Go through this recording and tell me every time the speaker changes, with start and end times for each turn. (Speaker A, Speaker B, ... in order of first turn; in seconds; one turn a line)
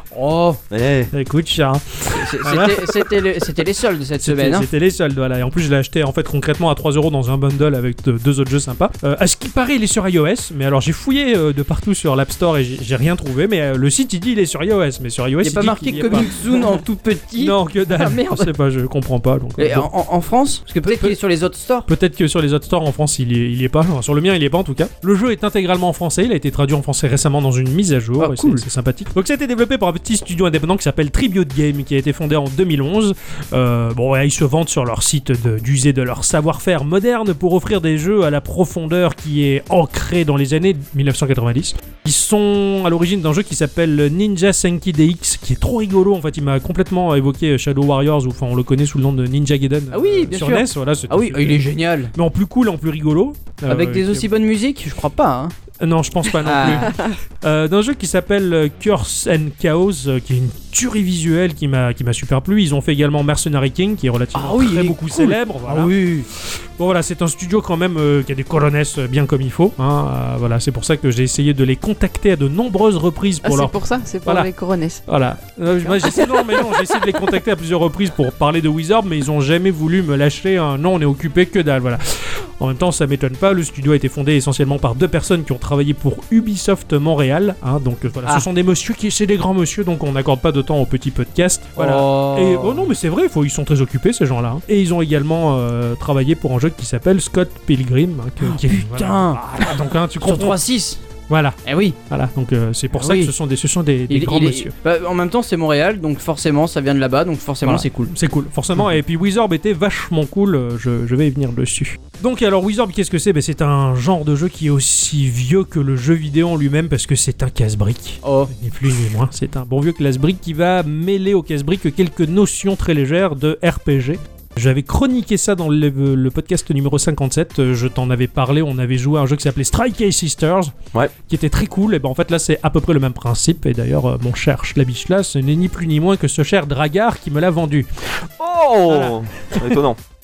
Speaker A: 0.1-0.6
Speaker B: 0.7-1.1
Speaker C: 1.1-3.5
Speaker A: 2.1-4.7
Speaker C: 4.2-16.8
Speaker A: 15.4-18.5
Speaker C: 17.4-19.9
Speaker A: 19.6-21.9
Speaker C: 20.8-21.2
Speaker C: 21.9-54.3
Speaker A: 28.2-28.6
Speaker A: 49.9-52.1
Speaker A: 53.6-55.5
Speaker C: 55.8-74.5
Speaker A: 56.3-57.0
Speaker A: 64.3-66.3
Speaker D: 73.4-75.0
Speaker C: 75.1-100.6
Speaker D: 75.8-77.1
Speaker A: 91.8-92.9
Speaker A: 98.4-101.0
Speaker C: 101.3-104.7
Speaker A: 101.6-102.0
Speaker A: 103.0-103.3
Speaker A: 104.1-108.1
Speaker C: 107.6-137.9
Speaker A: 118.2-118.5
Speaker B: 138.4-140.0
Speaker C: 138.9-139.6